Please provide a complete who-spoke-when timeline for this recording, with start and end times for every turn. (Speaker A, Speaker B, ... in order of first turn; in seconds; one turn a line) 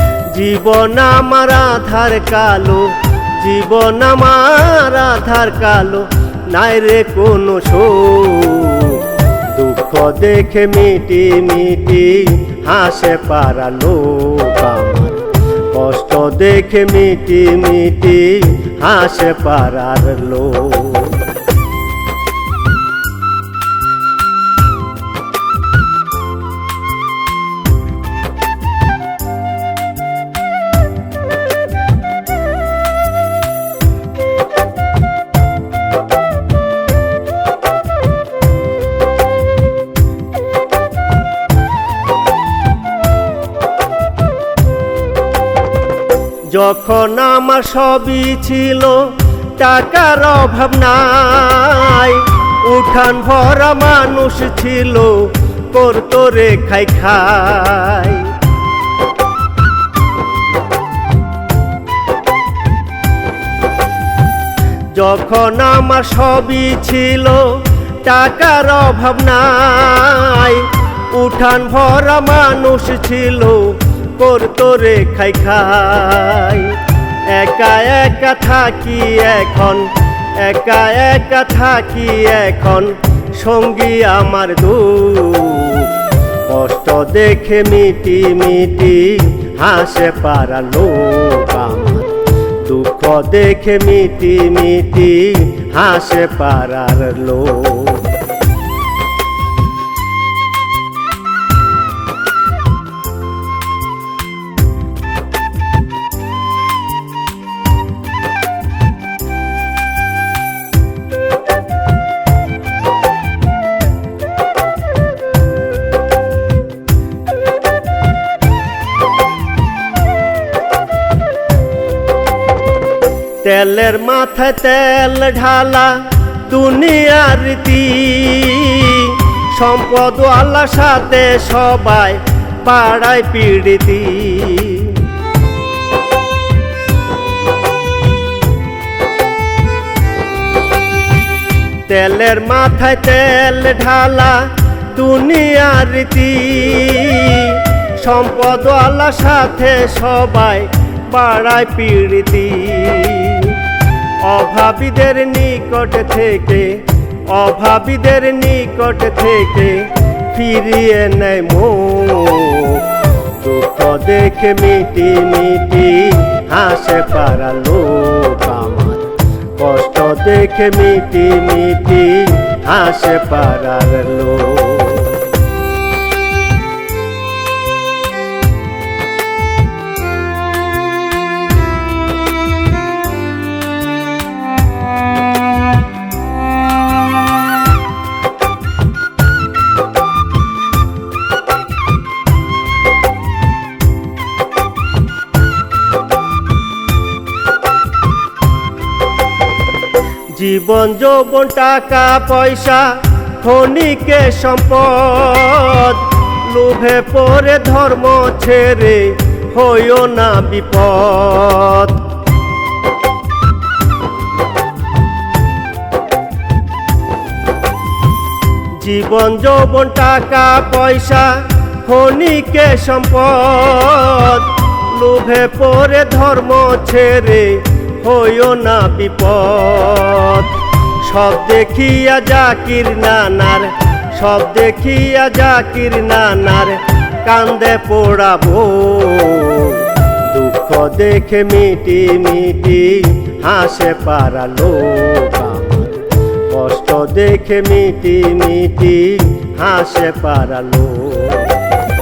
Speaker A: 0.3-21.3
Speaker A: 46.5-58.3
Speaker A: 64.9-98.1
Speaker A: 123.4-135.1
Speaker A: 141.8-153.7
Speaker A: 154.2-175.3
Speaker A: 200.3-212.1
Speaker A: 218.7-251.6